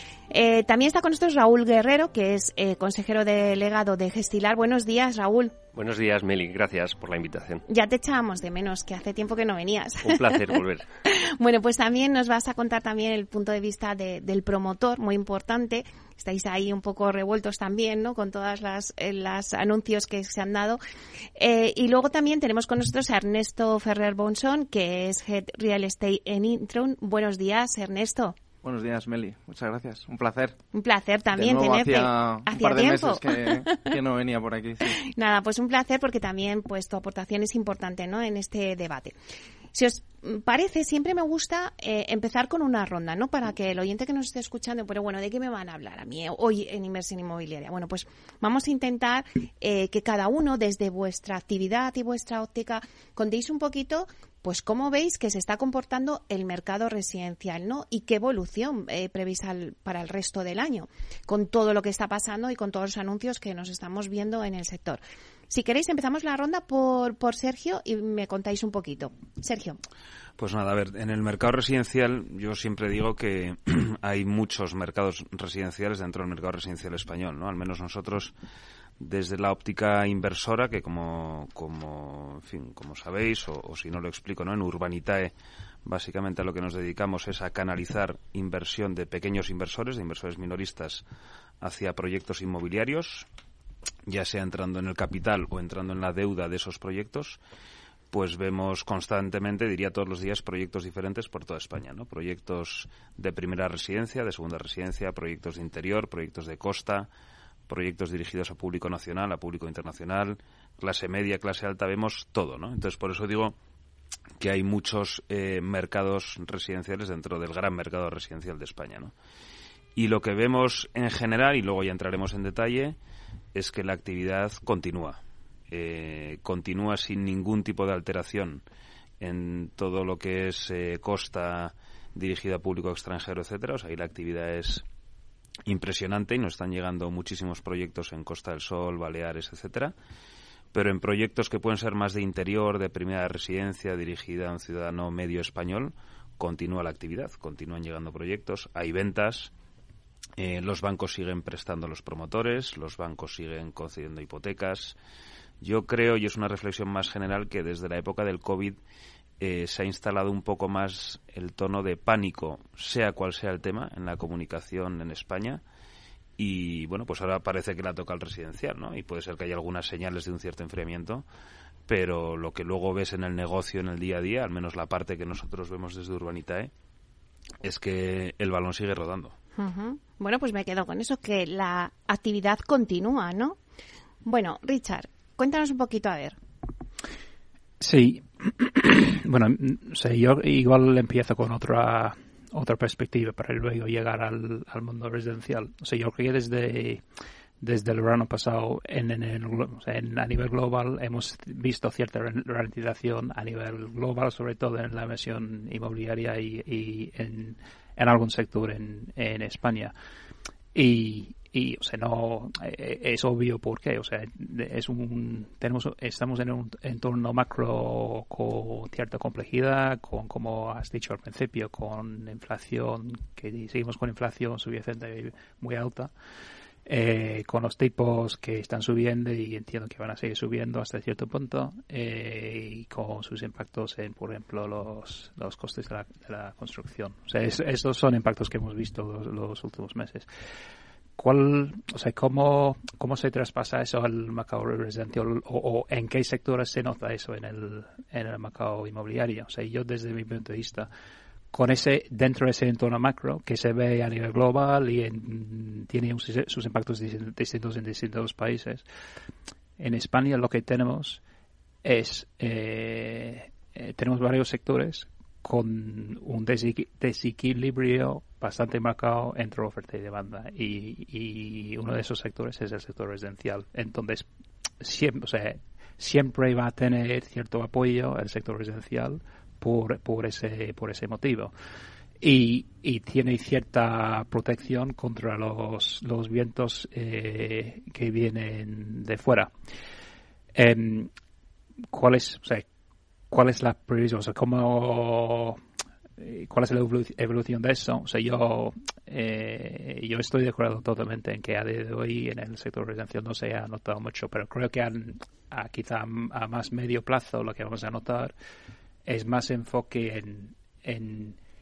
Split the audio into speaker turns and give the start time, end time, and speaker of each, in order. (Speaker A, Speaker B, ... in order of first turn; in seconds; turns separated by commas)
Speaker A: 0.3-5.5, Speaker B: 5.7-7.6, Speaker A: 7.7-10.4, Speaker B: 10.0-10.8, Speaker A: 11.1-20.8, Speaker A: 21.4-28.4, Speaker C: 28.6-30.6, Speaker A: 30.7-33.9, Speaker C: 31.3-35.0, Speaker A: 34.8-39.1, Speaker A: 39.7-69.8, Speaker D: 70.4-78.3, Speaker D: 79.0-85.3, Speaker D: 85.8-91.0, Speaker D: 91.6-93.3, Speaker D: 94.0-97.4, Speaker D: 98.1-107.1, Speaker D: 107.7-113.6, Speaker D: 114.4-119.1, Speaker D: 119.9-123.0, Speaker D: 123.5-128.6, Speaker D: 129.2-134.8, Speaker D: 135.6-139.9, Speaker D: 140.7-149.5, Speaker D: 150.4-155.0, Speaker D: 155.6-158.8, Speaker D: 159.4-165.6, Speaker D: 166.4-171.2, Speaker D: 171.9-176.7, Speaker D: 177.6-179.3, Speaker A: 179.6-183.6, Speaker A: 184.2-186.4, Speaker E: 187.8-197.0, Speaker E: 197.6-209.9, Speaker E: 210.7-226.1, Speaker E: 226.8-240.3, Speaker E: 241.2-250.9, Speaker E: 251.5-258.8, Speaker E: 259.8-261.2, Speaker E: 261.8-274.2, Speaker E: 274.8-281.5, Speaker E: 282.2-289.5, Speaker E: 290.5-291.1, Speaker E: 291.9-292.6, Speaker E: 293.3-295.6, Speaker E: 296.2-308.3, Speaker E: 309.1-311.4